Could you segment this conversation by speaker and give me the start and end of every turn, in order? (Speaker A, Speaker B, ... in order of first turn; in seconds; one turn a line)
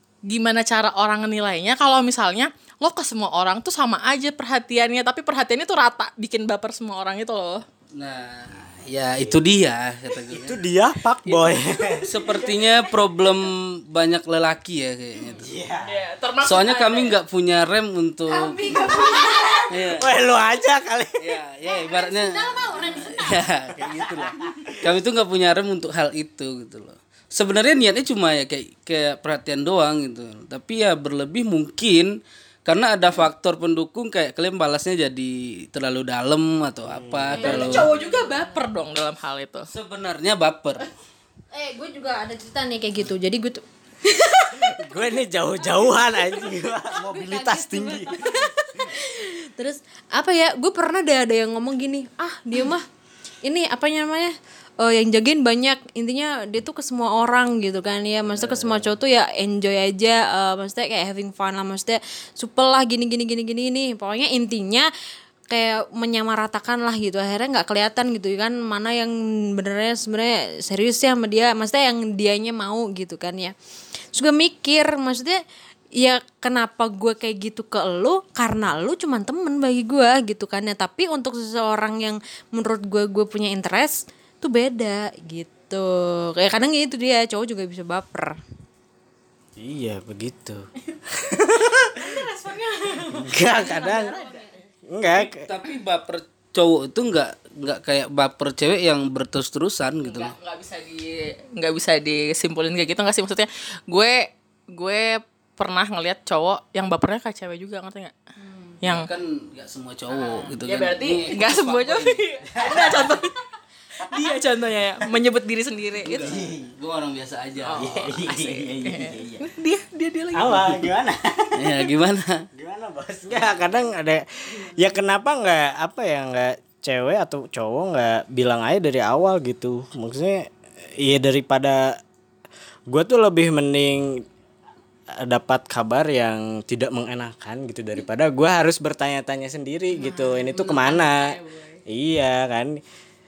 Speaker A: 0.3-7.6
Speaker B: 7.9-10.6
Speaker C: 10.3-12.7
Speaker B: 12.0-15.5
Speaker C: 15.3-16.0
Speaker A: 15.8-17.2
Speaker B: 16.4-18.6
Speaker D: 18.3-19.9
Speaker B: 19.7-20.1
Speaker C: 20.0-21.1
Speaker B: 21.2-37.9
Speaker D: 21.6-23.5
Speaker C: 36.9-37.9
Speaker D: 37.4-38.6
Speaker A: 37.4-39.7
Speaker B: 39.7-40.9
Speaker D: 41.5-45.0
Speaker C: 44.6-48.9
Speaker D: 45.6-52.9
Speaker D: 53.4-64.9
Speaker C: 58.3-58.9
Speaker D: 65.5-73.5
Speaker D: 74.1-75.4
Speaker D: 76.0-88.3
Speaker C: 89.6-92.2
Speaker A: 91.6-94.6
Speaker C: 93.1-94.2
Speaker D: 93.5-94.5
Speaker C: 94.9-95.5
Speaker B: 95.1-100.3
Speaker A: 100.0-108.1
Speaker D: 108.4-108.8
Speaker A: 108.8-109.1
Speaker B: 108.8-112.3
Speaker A: 110.2-113.4
Speaker C: 112.5-113.1
Speaker A: 114.0-116.3
Speaker B: 116.0-117.9
Speaker C: 116.2-116.7
Speaker A: 117.6-120.8
Speaker C: 117.7-119.5
Speaker C: 120.3-121.9
Speaker B: 121.5-122.5
Speaker C: 122.5-132.0
Speaker C: 132.9-134.2
Speaker C: 135.1-142.8
Speaker D: 139.9-140.6
Speaker A: 140.5-141.8